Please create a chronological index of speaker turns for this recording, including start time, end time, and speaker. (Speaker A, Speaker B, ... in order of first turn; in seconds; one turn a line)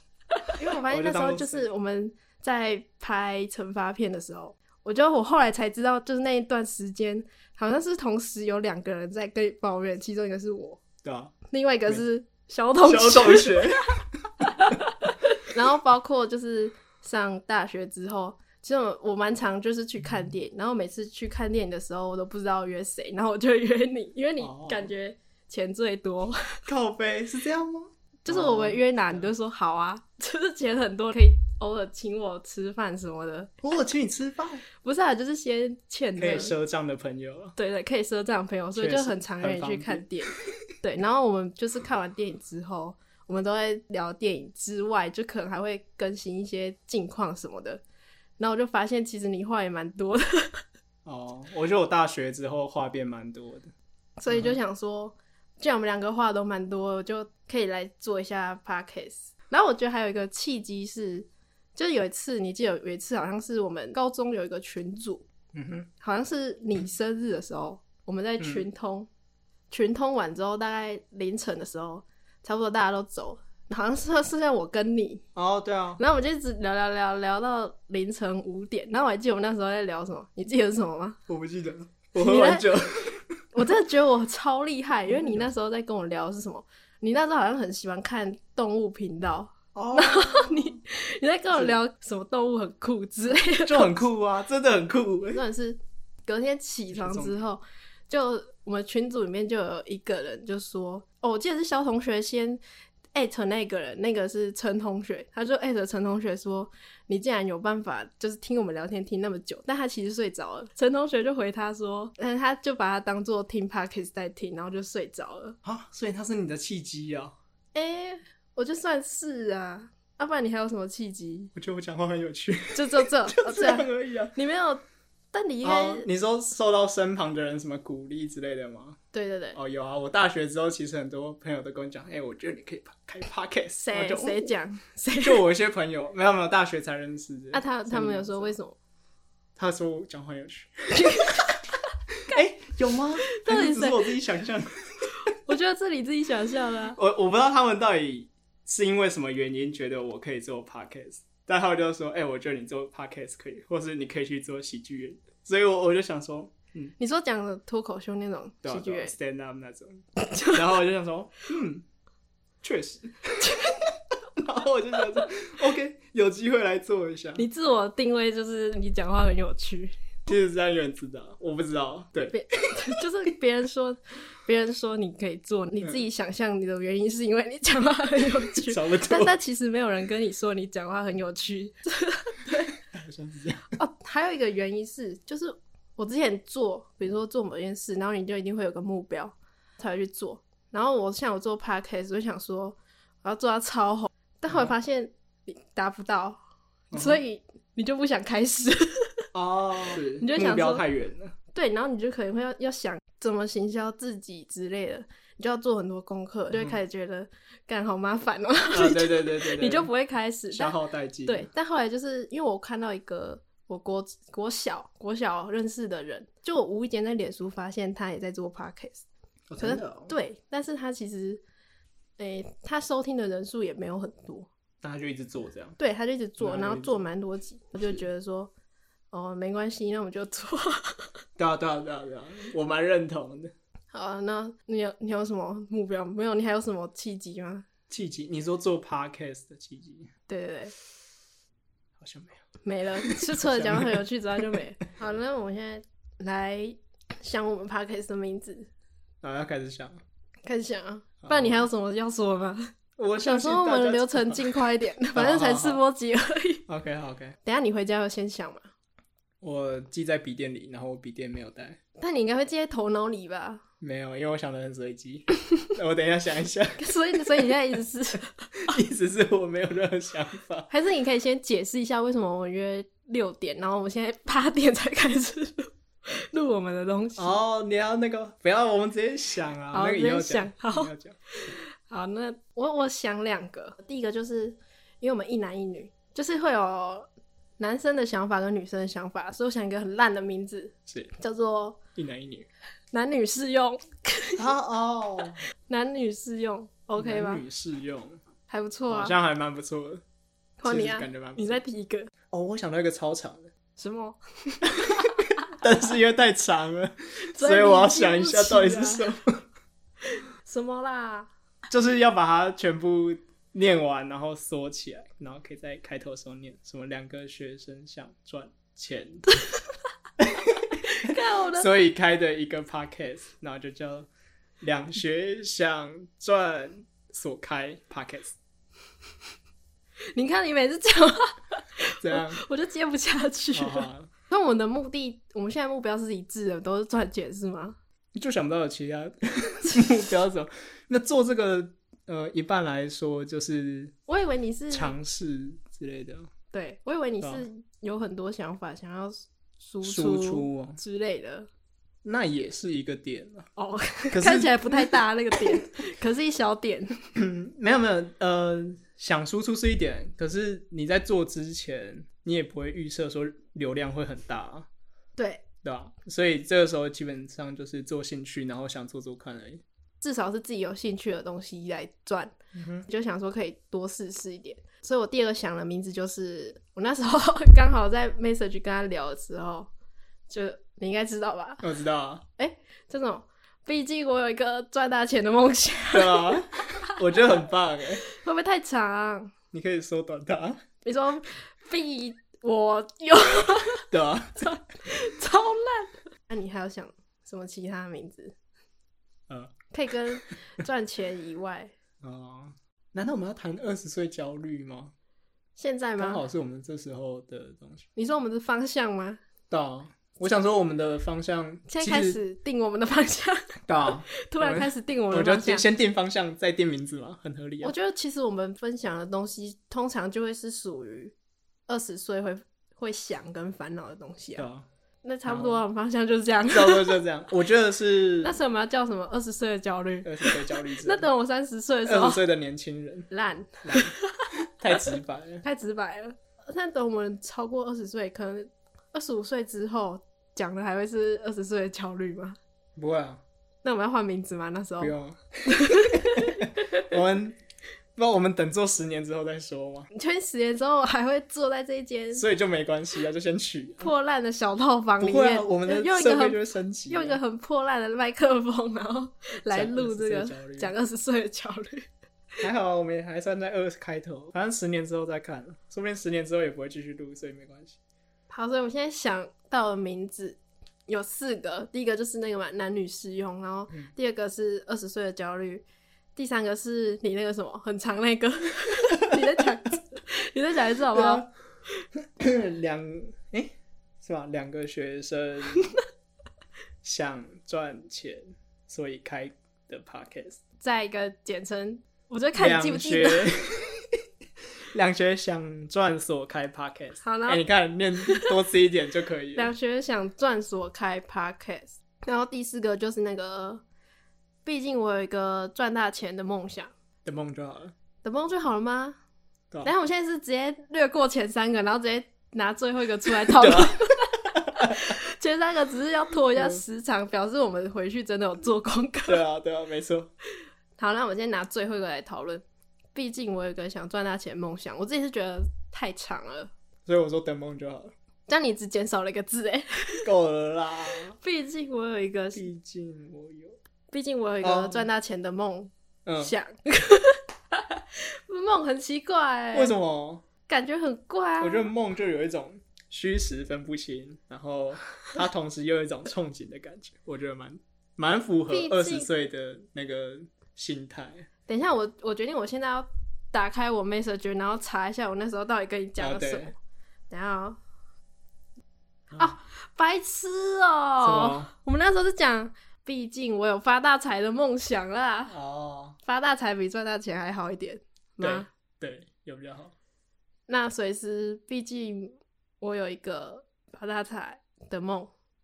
Speaker A: 0.5-10.8
Speaker B: 0.9-1.6
Speaker B: 11.0-11.3
Speaker A: 11.5-13.9
Speaker B: 12.8-14.2
Speaker A: 14.5-26.5
Speaker B: 24.4-24.9
Speaker B: 26.7-29.3
Speaker A: 28.2-33.5
Speaker B: 33.6-34.6
Speaker A: 34.8-36.5
Speaker B: 36.2-37.5
Speaker A: 37.6-47.8
Speaker B: 38.8-40.1
Speaker A: 48.4-50.6
Speaker B: 51.0-53.7
Speaker A: 54.2-65.2
Speaker B: 54.3-54.6
Speaker B: 65.5-65.9
Speaker A: 66.0-69.1
Speaker B: 68.4-68.7
Speaker A: 69.7-75.2
Speaker B: 75.3-76.0
Speaker A: 76.0-81.2
Speaker B: 81.3-83.5
Speaker A: 82.2-82.7
Speaker A: 83.5-94.0
Speaker B: 85.1-85.4
Speaker B: 89.7-90.8
Speaker B: 93.5-95.4
Speaker A: 95.3-102.6
Speaker B: 96.9-97.4
Speaker A: 103.1-115.6
Speaker B: 115.6-117.4
Speaker A: 117.7-121.5
Speaker B: 121.6-124.3
Speaker A: 122.7-126.1
Speaker B: 125.6-129.0
Speaker A: 129.1-129.6
Speaker B: 129.5-134.5
Speaker A: 133.8-135.4
Speaker B: 135.2-138.6
Speaker A: 137.5-138.8
Speaker B: 139.6-141.4
Speaker A: 140.9-141.7
Speaker B: 142.3-145.3
Speaker A: 143.2-144.2
Speaker A: 145.4-147.0
Speaker B: 146.9-156.9
Speaker A: 157.0-159.1
Speaker B: 158.6-161.8
Speaker A: 160.2-160.6
Speaker B: 162.6-163.8
Speaker B: 164.4-167.4
Speaker A: 167.4-169.9
Speaker B: 170.3-172.4
Speaker A: 172.3-182.7
Speaker B: 178.6-179.4
Speaker B: 182.8-183.7
Speaker A: 183.8-196.4
Speaker B: 196.9-197.2
Speaker A: 196.9-199.2
Speaker B: 199.3-201.3
Speaker A: 199.9-200.8
Speaker A: 201.5-219.1
Speaker B: 206.5-206.8
Speaker B: 208.7-209.9
Speaker B: 210.5-211.5
Speaker B: 219.5-220.1
Speaker A: 219.6-221.4
Speaker A: 222.2-224.5
Speaker B: 224.8-225.8
Speaker A: 225.8-228.5
Speaker B: 226.4-227.1
Speaker A: 229.1-231.1
Speaker B: 231.4-233.5
Speaker A: 233.9-237.7
Speaker B: 237.9-240.1
Speaker A: 240.3-240.7
Speaker B: 242.0-242.4
Speaker A: 242.6-248.7
Speaker B: 243.0-244.6
Speaker B: 249.2-250.0
Speaker A: 250.4-256.6
Speaker B: 251.2-251.6
Speaker B: 253.0-254.6
Speaker B: 255.1-255.8
Speaker B: 256.7-257.4
Speaker A: 257.4-258.7
Speaker B: 259.4-261.8
Speaker A: 262.0-263.6
Speaker B: 263.8-267.5
Speaker A: 266.8-268.4
Speaker B: 268.7-270.7
Speaker A: 270.7-277.4
Speaker B: 277.2-281.2
Speaker A: 279.7-287.1
Speaker A: 287.6-291.8
Speaker B: 290.9-291.1
Speaker B: 292.0-292.5
Speaker A: 292.9-294.4
Speaker B: 294.4-295.4
Speaker A: 295.7-297.4
Speaker B: 297.0-298.2
Speaker A: 298.5-299.1
Speaker B: 298.9-300.0
Speaker A: 300.6-302.1
Speaker B: 300.6-301.6
Speaker B: 302.3-303.5
Speaker A: 303.8-305.2
Speaker B: 304.8-309.4
Speaker A: 307.3-309.1
Speaker A: 310.1-311.3
Speaker B: 311.7-319.3
Speaker B: 320.2-324.1
Speaker A: 320.8-321.7
Speaker B: 324.6-328.4
Speaker A: 330.1-337.8
Speaker B: 332.0-332.4
Speaker B: 333.5-334.1
Speaker B: 338.1-343.9
Speaker A: 344.1-344.9
Speaker B: 344.7-346.3
Speaker A: 346.5-351.5
Speaker B: 349.8-350.8
Speaker B: 352.0-353.5
Speaker A: 353.6-357.0
Speaker B: 354.1-355.6
Speaker B: 357.1-364.7
Speaker A: 365.2-365.4
Speaker B: 365.6-369.6
Speaker A: 370.0-379.7
Speaker B: 372.5-372.9
Speaker A: 380.3-381.7
Speaker B: 381.6-382.2
Speaker A: 382.4-386.3
Speaker B: 385.9-388.0
Speaker A: 388.1-389.3
Speaker B: 389.5-390.6
Speaker A: 390.8-393.9
Speaker B: 393.9-394.5
Speaker A: 394.4-398.3
Speaker A: 399.7-401.7
Speaker B: 402.0-404.9
Speaker A: 405.6-406.2
Speaker B: 406.0-407.9
Speaker A: 408.0-409.2
Speaker B: 409.5-412.2
Speaker A: 411.7-413.6
Speaker B: 413.7-417.7
Speaker A: 414.1-415.7
Speaker A: 417.6-421.1
Speaker A: 421.7-424.5
Speaker B: 424.4-424.7
Speaker A: 425.0-427.0
Speaker B: 425.2-425.6
Speaker B: 426.5-428.4
Speaker A: 428.2-432.2
Speaker B: 430.0-431.1
Speaker B: 431.9-433.1
Speaker A: 433.1-434.1
Speaker B: 433.6-434.0
Speaker B: 434.6-435.4
Speaker A: 435.4-442.4
Speaker B: 442.8-443.2
Speaker A: 443.6-444.9
Speaker B: 444.8-447.4
Speaker A: 445.5-446.8
Speaker B: 448.0-449.9
Speaker A: 449.9-452.2
Speaker B: 452.1-453.9
Speaker A: 453.8-461.9
Speaker B: 455.0-457.2
Speaker B: 459.5-460.7
Speaker B: 462.4-467.8
Speaker A: 468.3-475.6
Speaker A: 476.2-481.2
Speaker B: 480.9-481.3
Speaker B: 482.2-485.7
Speaker B: 486.8-490.4
Speaker A: 490.6-493.3
Speaker B: 492.4-494.0
Speaker B: 494.7-499.5
Speaker A: 497.0-497.4
Speaker A: 498.0-498.3
Speaker A: 499.4-503.6
Speaker A: 504.4-506.7
Speaker B: 507.1-507.7
Speaker A: 508.0-509.0
Speaker A: 509.6-519.2
Speaker B: 513.3-514.8
Speaker B: 519.1-520.1
Speaker A: 520.8-522.4
Speaker A: 522.9-526.5
Speaker B: 526.9-527.9
Speaker A: 528.3-530.1
Speaker B: 530.0-531.2
Speaker A: 531.2-532.5
Speaker B: 532.3-533.6
Speaker A: 533.9-539.8
Speaker B: 534.4-534.9
Speaker B: 536.0-536.3
Speaker B: 539.5-540.2
Speaker A: 540.5-541.7
Speaker B: 541.4-551.3
Speaker A: 548.5-549.1
Speaker A: 551.5-556.5
Speaker B: 556.0-556.5
Speaker A: 557.1-557.6
Speaker A: 559.2-565.3
Speaker B: 561.0-561.5
Speaker B: 565.3-566.0
Speaker A: 566.0-568.5
Speaker B: 568.2-569.7
Speaker A: 570.5-575.1